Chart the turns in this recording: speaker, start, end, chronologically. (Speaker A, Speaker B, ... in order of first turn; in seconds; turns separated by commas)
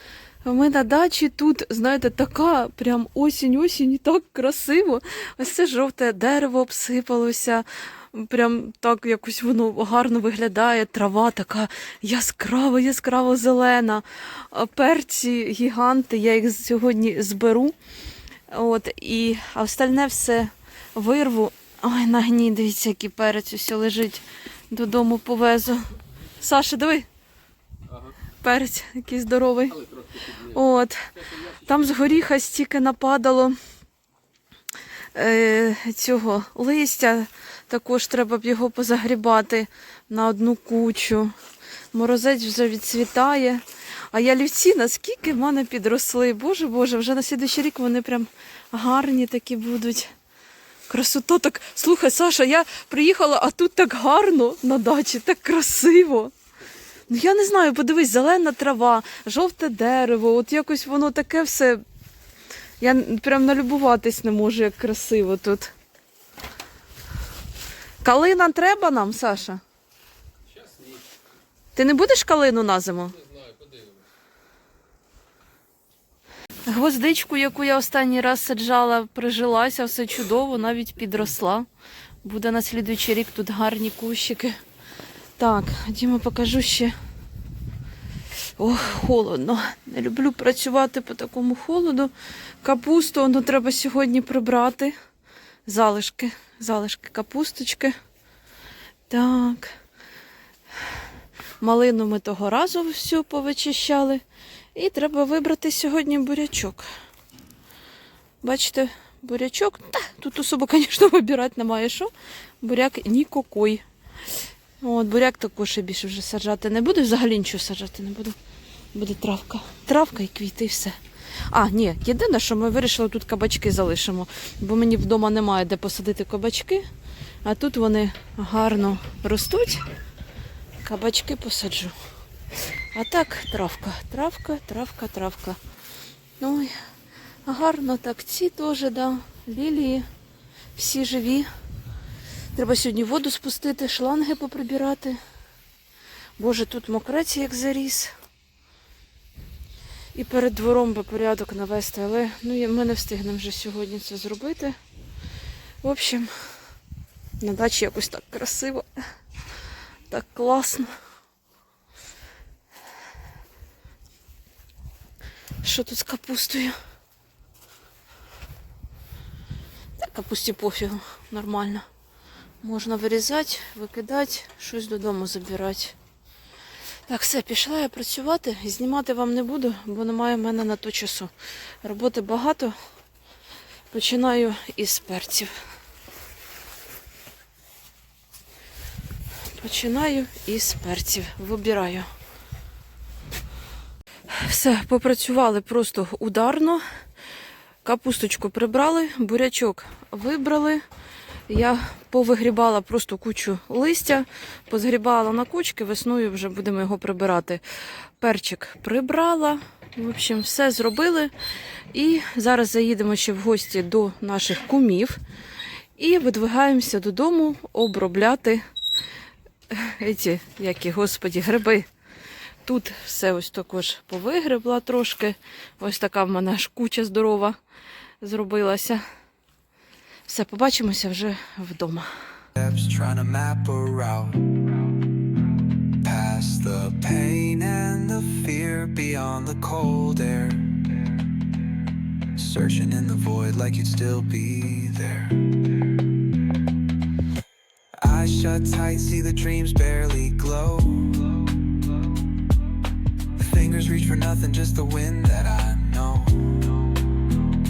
Speaker A: 0.4-17.8, Speaker A: 18.5-27.1, Speaker B: 27.9-28.2, Speaker A: 28.4-29.8, Speaker B: 29.7-30.6, Speaker A: 30.4-33.6, Speaker B: 31.1-31.7, Speaker A: 35.1-41.3, Speaker A: 41.9-50.1, Speaker A: 50.9-56.3, Speaker A: 57.1-61.8, Speaker A: 62.8-65.7, Speaker A: 68.0-69.6, Speaker B: 70.5-71.1, Speaker A: 71.8-73.2, Speaker B: 73.2-74.1, Speaker A: 76.7-81.7, Speaker A: 82.2-84.6, Speaker A: 85.4-87.0, Speaker A: 88.6-94.9, Speaker A: 95.7-98.0, Speaker A: 99.1-99.8, Speaker A: 101.6-104.2, Speaker A: 104.7-106.9, Speaker A: 108.4-113.8, Speaker A: 114.8-118.4, Speaker A: 118.9-121.0, Speaker A: 121.5-126.8, Speaker A: 127.4-129.8, Speaker A: 130.8-131.9, Speaker A: 132.9-135.6, Speaker A: 136.4-136.8, Speaker A: 137.4-140.1, Speaker A: 140.8-141.5, Speaker A: 142.5-145.2, Speaker A: 146.4-148.1, Speaker A: 150.1-154.8, Speaker A: 155.8-156.3, Speaker A: 157.4-158.9, Speaker A: 160.1-160.9, Speaker A: 165.6-166.8, Speaker A: 170.0-171.9, Speaker A: 172.6-176.0, Speaker A: 177.1-181.3, Speaker A: 181.8-182.8, Speaker A: 183.9-185.5, Speaker A: 189.5-192.1, Speaker A: 194.3-196.8, Speaker A: 197.8-200.8, Speaker A: 201.5-207.6, Speaker A: 208.2-211.3, Speaker A: 211.9-215.2, Speaker A: 216.0-218.6, Speaker A: 219.7-221.9, Speaker A: 222.6-227.6, Speaker A: 228.2-229.0, Speaker A: 230.3-232.1, Speaker C: 232.6-234.6, Speaker C: 236.0-241.0, Speaker C: 242.3-245.6, Speaker C: 248.0-251.5, Speaker C: 253.4-256.9